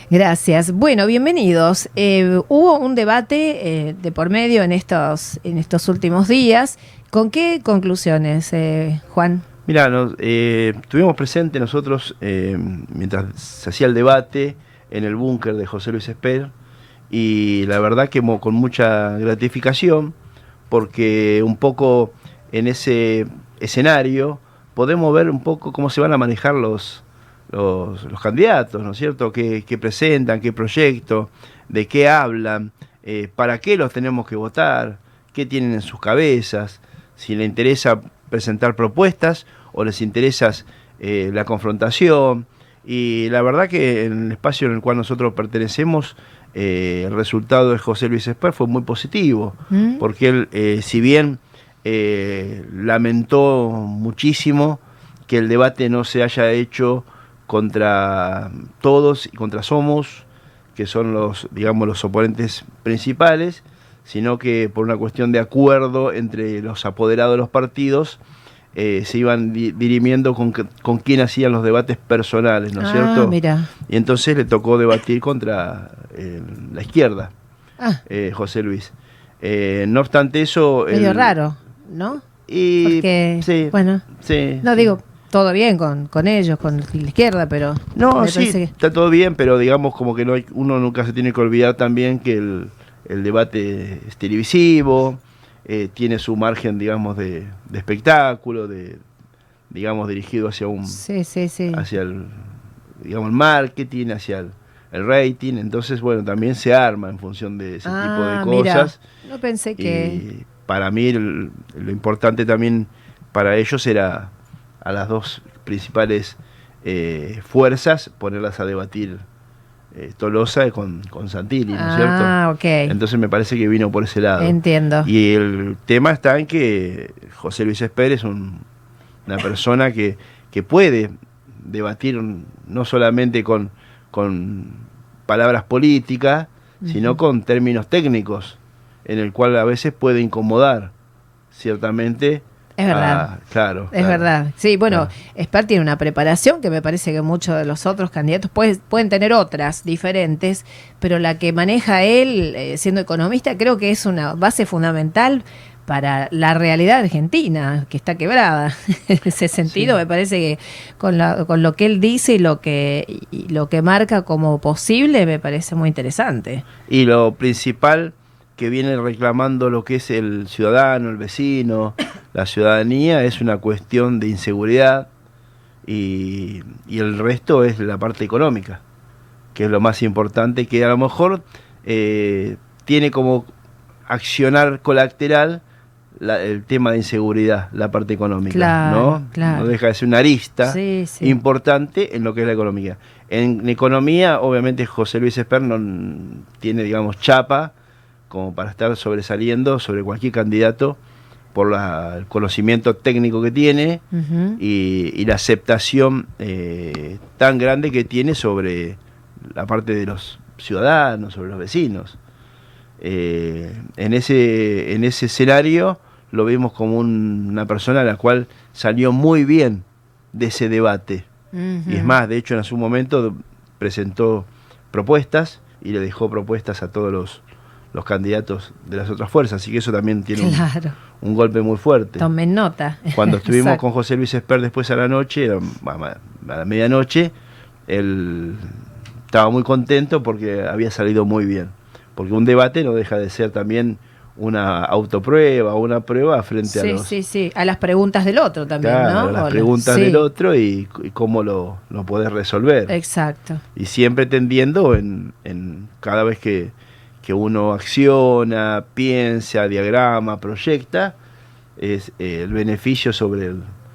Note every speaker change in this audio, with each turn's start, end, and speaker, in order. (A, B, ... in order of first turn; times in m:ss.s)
0:00.1-0:09.4 A
0:09.7-0:16.5 B
0:17.1-0:20.1 B
0:20.7-1:08.2 B
0:49.7-0:50.0 A
1:08.7-1:13.4 B
1:12.8-1:13.7 A
1:13.9-1:17.3 B
1:18.1-1:21.4 B
1:20.9-1:22.2 A
1:22.5-1:24.9 B
1:22.8-1:24.1 A
1:24.6-1:28.7 A
1:27.9-1:39.0 B
1:39.7-1:41.0 B
1:40.9-1:41.8 A
1:41.7-1:49.0 B
1:47.8-1:50.2 A
1:49.8-1:59.2 B
1:59.9-2:02.3 B
2:01.7-2:03.0 A
2:02.8-2:08.6 B
2:04.4-2:05.1 A
2:09.2-2:20.9 B
2:16.8-2:17.2 A
2:21.5-2:24.3 B
2:22.8-2:23.3 A
2:23.9-2:46.6 A
2:39.6-2:39.9 B
2:46.9-2:55.1 B
2:55.8-2:58.8 B
2:59.5-3:03.5 B
3:04.1-3:05.6 B
3:06.2-3:17.7 B
3:08.5-3:09.7 A
3:10.6-3:11.4 A
3:18.3-3:21.0 B
3:21.5-3:24.0 B
3:24.1-3:24.6 A
3:24.6-3:32.2 B
3:33.0-3:41.3 B
3:41.5-3:42.2 A
3:41.9-3:50.7 B
3:50.4-3:51.0 A
3:51.2-3:52.3 B
3:52.2-3:53.8 A
3:53.1-3:57.3 B
3:57.9-3:58.8 B
3:59.3-4:07.2 B
4:06.6-4:10.2 A
4:08.8-4:13.0 B
4:12.9-4:13.6 A
4:13.8-4:21.2 B
4:21.8-4:23.7 B